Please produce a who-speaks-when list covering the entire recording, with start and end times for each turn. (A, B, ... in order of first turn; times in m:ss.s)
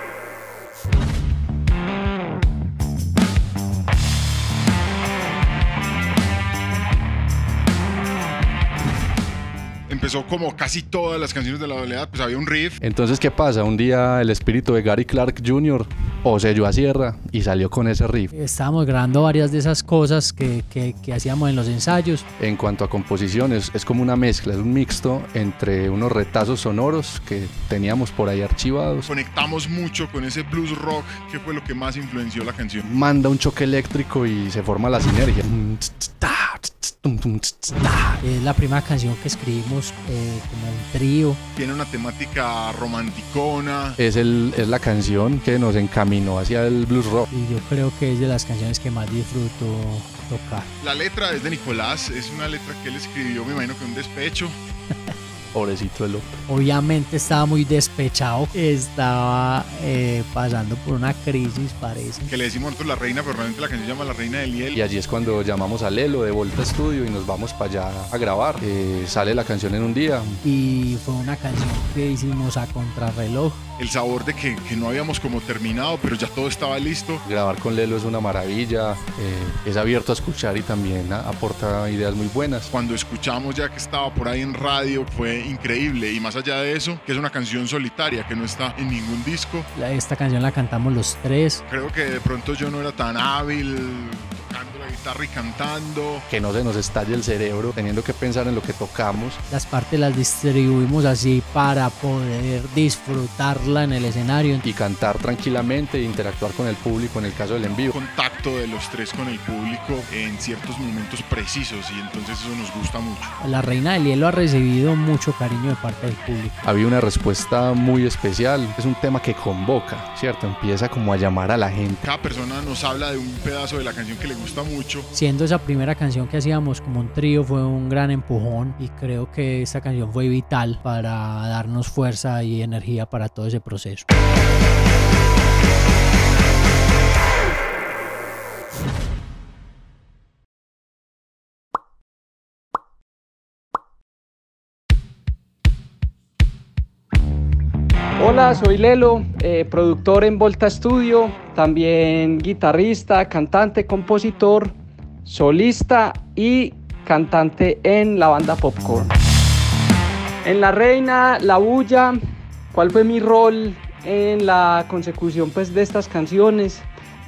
0:09.9-0:12.8 A
0:12.8-0:18.3 B
0:18.3-0:22.3 C
0:22.4-0:29.1 B
0:29.1-0:32.8 A
0:32.8-0:38.2 B
0:38.2-0:41.4 C
0:41.6-0:44.0 A
0:44.0-0:47.3 B
0:47.3-0:50.7 C
0:50.8-0:54.6 A
0:55.5-0:56.4 B
0:56.5-1:02.3 C
1:02.3-1:04.7 A
1:04.8-1:10.4 B
1:10.4-1:13.6 C
1:13.8-1:17.2 A
1:17.2-1:22.7 B
1:22.7-1:29.7 A
1:29.8-1:31.6 C
1:31.7-1:36.2 A
1:36.3-1:39.4 B
1:39.5-1:44.6 C
1:44.6-1:47.9 B
1:47.9-1:53.3 A
1:53.4-1:56.6 C
1:56.6-2:02.0 B
2:02.0-2:05.1 A
2:05.1-2:14.1 C
2:28.2-2:39.1 D
2:40.4-2:42.2 D
2:42.7-2:46.9 D